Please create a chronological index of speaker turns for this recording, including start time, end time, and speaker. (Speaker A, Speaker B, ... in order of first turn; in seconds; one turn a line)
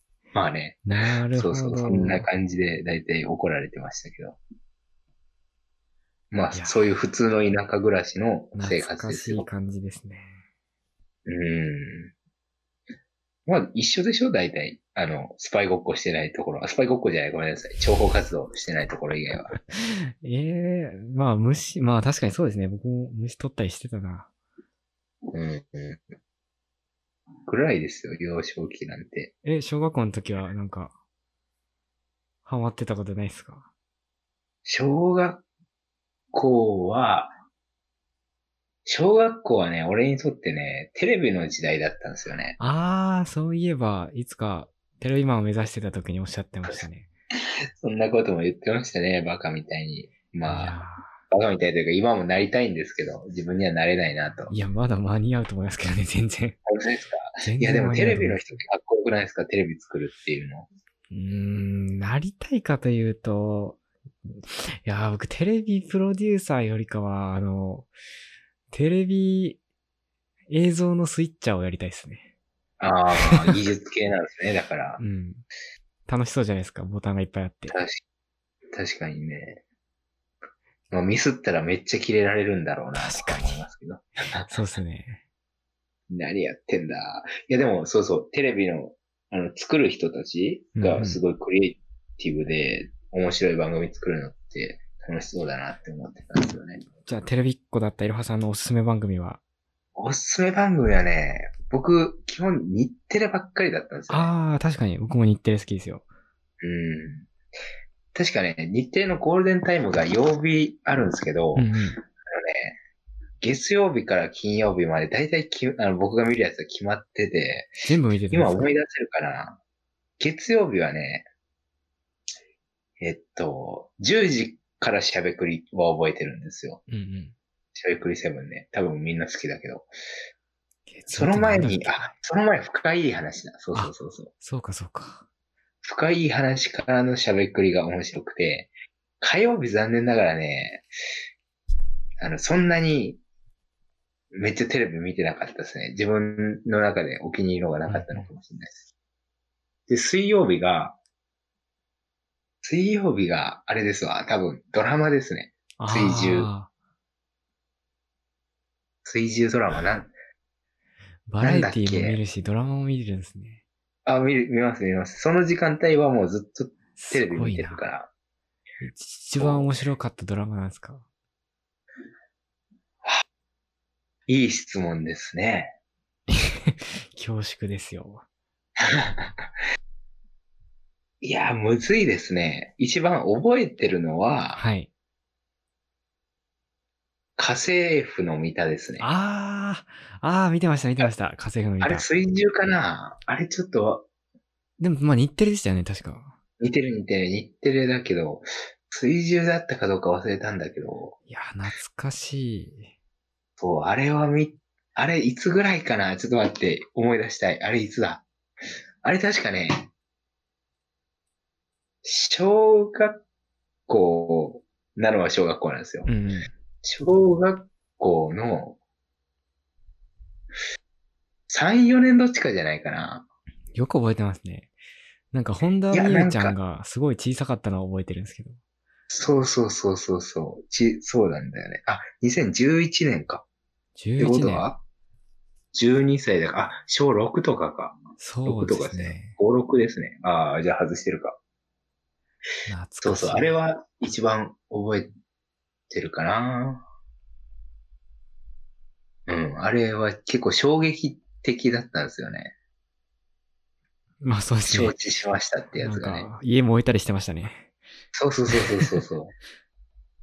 Speaker A: 0.3-4.4
Speaker B: 0.9-2.3
Speaker A: 6.3-9.5
Speaker B: 6.5-6.8
Speaker B: 8.6-10.3
Speaker A: 11.3-12.1
Speaker A: 13.5-19.6
Speaker B: 19.7-24.3
Speaker A: 25.3-26.0
Speaker A: 27.5-29.3
Speaker B: 29.4-30.9
Speaker B: 32.5-33.7
Speaker A: 34.7-35.4
Speaker A: 36.3-37.3
Speaker A: 38.9-42.6
Speaker B: 42.6-47.1
Speaker A: 47.8-50.8
Speaker B: 50.5-51.2
Speaker A: 51.3-54.5
Speaker B: 54.5-56.6
Speaker A: 56.7-60.7
Speaker B: 57.4-58.6
Speaker B: 61.1-63.8
Speaker B: 64.4-67.9
Speaker B: 68.7-69.6
Speaker B: 70.5-72.3
Speaker A: 72.8-75.0
Speaker B: 73.2-73.6
Speaker B: 75.0-75.4
Speaker B: 76.1-77.8
Speaker A: 77.7-78.0
Speaker A: 78.7-79.6
Speaker A: 80.9-84.5
Speaker B: 83.0-83.7
Speaker B: 84.5-85.2
Speaker A: 86.1-96.8
Speaker B: 90.8-91.2
Speaker B: 97.0-99.4
Speaker A: 100.0-104.3
Speaker B: 104.1-106.0
Speaker A: 106.6-107.3
Speaker A: 108.1-111.7
Speaker B: 111.5-112.0
Speaker A: 112.2-112.8
Speaker A: 113.4-117.8
Speaker B: 117.8-118.7
Speaker A: 118.3-119.6
Speaker A: 120.2-121.3
Speaker A: 123.0-126.8
Speaker B: 126.9-127.3
Speaker A: 127.8-129.9
Speaker B: 130.9-132.1
Speaker A: 131.1-134.3
Speaker B: 133.7-135.2
Speaker A: 135.8-140.9
Speaker A: 142.2-143.2
Speaker A: 144.3-148.8
Speaker B: 147.9-148.3
Speaker A: 149.9-151.0
Speaker A: 152.6-156.5
Speaker B: 155.8-156.7
Speaker A: 159.1-160.1
Speaker B: 161.3-163.6
Speaker A: 161.4-162.2
Speaker A: 164.1-168.1
Speaker B: 167.0-167.8
Speaker B: 168.8-171.1
Speaker A: 169.4-169.7
Speaker A: 174.3-175.7
Speaker B: 176.3-178.2
Speaker A: 178.8-179.5
Speaker A: 181.2-184.6
Speaker B: 184.6-184.9
Speaker A: 187.4-189.1
Speaker B: 189.0-192.1
Speaker A: 191.8-194.1
Speaker B: 194.8-196.3
Speaker A: 196.6-201.2
Speaker B: 201.3-202.9
Speaker A: 203.6-208.2
Speaker A: 209.0-209.9
Speaker A: 212.0-213.2
Speaker A: 213.9-216.1
Speaker B: 216.1-216.5
Speaker A: 216.8-218.8
Speaker A: 221.5-223.3
Speaker B: 223.7-224.7
Speaker B: 225.3-228.6
Speaker A: 225.9-226.6
Speaker A: 229.1-233.4
Speaker B: 234.0-234.7
Speaker A: 234.2-234.8
Speaker A: 235.7-241.4
Speaker B: 238.2-239.4
Speaker B: 242.7-243.6
Speaker A: 243.0-245.1
Speaker A: 245.9-246.8
Speaker A: 249.3-252.5
Speaker B: 254.2-254.9
Speaker A: 254.7-256.3
Speaker B: 255.8-257.7
Speaker A: 258.1-259.4
Speaker B: 258.5-259.0